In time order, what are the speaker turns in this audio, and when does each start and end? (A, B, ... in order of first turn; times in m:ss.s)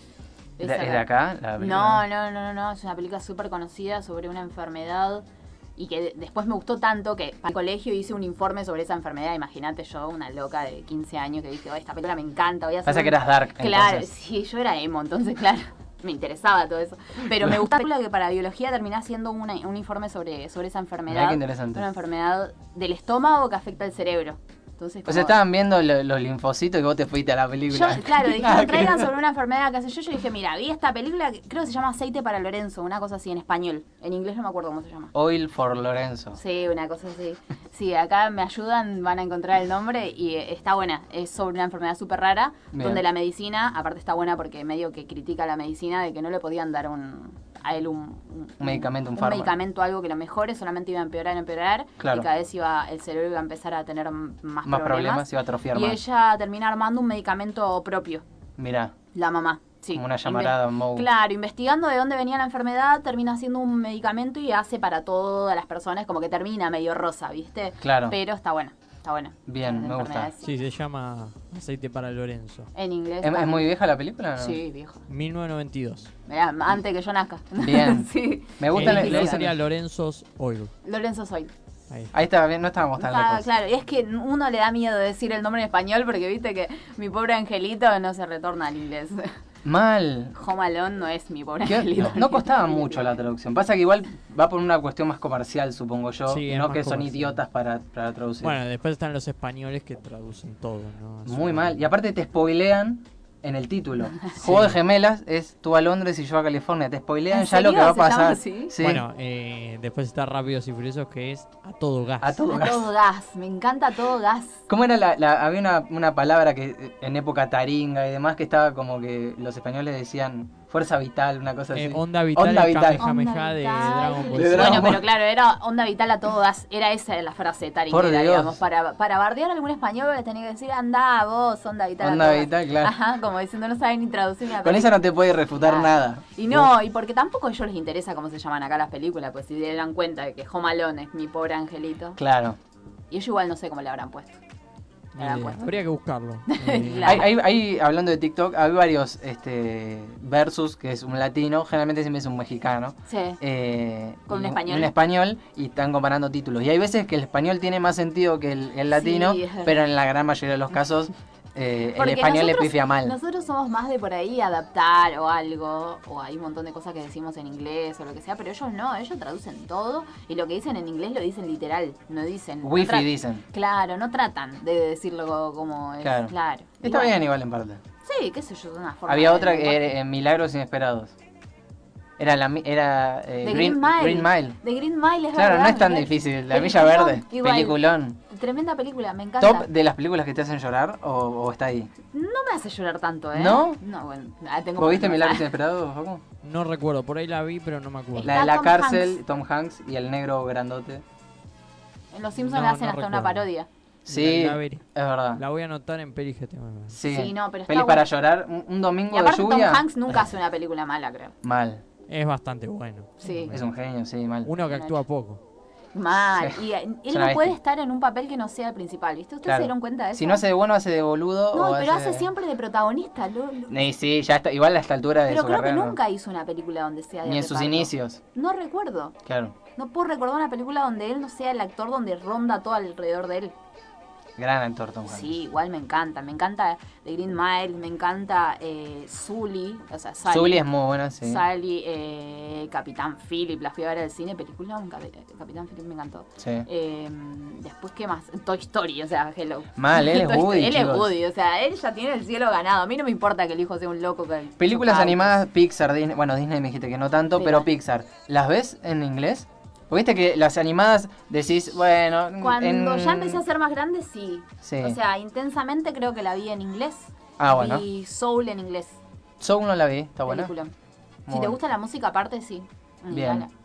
0:00.6-0:05.2 A
0:00.6-0:02.0 B
0:05.8-0:25.4 A
0:12.8-0:14.1 B
0:21.1-0:21.8 B
0:25.0-0:29.1 B
0:27.7-0:35.1 A
0:35.1-0:36.4 B
0:36.3-0:58.2 A
0:42.7-0:43.0 B
0:48.6-0:49.5 B
0:52.0-0:52.3 B
0:54.6-0:56.0 B
0:58.6-0:58.9 B
0:59.1-1:10.4 A
0:59.9-1:01.1 B
1:07.8-1:08.2 B
1:09.5-1:10.3 B
1:10.4-1:12.7 C
1:12.7-1:13.6 A
1:13.2-1:14.6 B
1:14.4-1:15.0 A
1:15.1-1:16.1 C
1:16.3-1:19.4 A
1:17.6-1:19.6 B
1:18.7-1:20.7 C
1:20.8-1:21.5 A
1:22.1-1:23.4 B
1:23.0-1:29.3 A
1:29.6-1:30.3 B
1:30.3-1:33.2 A
1:31.6-1:38.6 B
1:36.3-1:37.4 C
1:38.4-1:41.8 C
1:41.2-1:49.0 B
1:44.4-1:44.8 C
1:47.3-1:48.7 A
1:48.8-1:52.4 C
1:52.2-1:52.9 B
1:52.4-1:54.6 A
1:54.7-2:03.0 B
2:01.7-2:04.9 C
2:03.0-2:15.0 A
2:04.3-2:05.0 B
2:07.9-2:08.6 B
2:12.0-2:12.9 B
2:14.6-2:16.7 B
2:15.6-2:22.2 A
2:22.2-2:22.6 B
2:23.1-2:24.4 A
2:25.2-2:27.2 C
2:25.2-2:25.8 A
2:26.5-2:27.3 A
2:27.0-2:43.2 B
2:33.1-2:33.4 A
2:34.3-2:34.9 A
2:38.9-2:39.8 A
2:41.9-2:57.2 A
2:52.6-2:53.4 B
2:56.0-2:57.8 B
2:58.0-2:59.9 A
2:59.1-3:01.1 B
3:02.2-3:04.6 B
3:03.4-3:09.7 A
3:05.3-3:08.2 B
3:09.4-3:11.9 B
3:12.1-3:15.5 A
3:13.3-3:13.8 B
3:14.8-3:16.2 B
3:16.4-3:18.4 C
3:18.2-3:19.2 A
3:18.2-3:21.0 B
3:22.1-3:23.7 A
3:22.4-3:23.5 C
3:24.0-3:25.4 B
3:24.1-3:27.0 C
3:26.9-3:29.8 B
3:27.0-3:28.1 A
3:29.1-3:31.3 A
3:31.4-3:31.8 B
3:32.1-3:33.7 C
3:33.2-3:33.5 A
3:33.5-3:34.5 B
3:34.4-3:35.4 C
3:34.7-3:35.0 A
3:35.9-3:40.4 A
3:36.2-3:37.6 B
3:39.4-3:42.3 B
3:41.5-3:43.8 A
3:43.7-3:46.0 B
3:45.3-3:49.2 A
3:47.2-3:48.2 B
3:49.2-3:49.6 B
3:49.8-3:53.5 A
3:54.4-3:55.3 B
3:55.1-4:00.6 A
4:00.3-4:01.4 B
4:01.2-4:15.4 A
4:06.4-4:06.7 B
4:09.8-4:11.1 B
4:14.6-4:23.4 B
4:17.4-4:17.7 A
4:22.4-4:29.0 A
4:24.6-4:25.0 B
4:27.4-4:27.8 B
4:29.4-4:30.5 B
4:30.3-4:30.7 A
4:31.2-4:31.6 B
4:31.3-4:33.5 A
4:33.1-4:33.4 B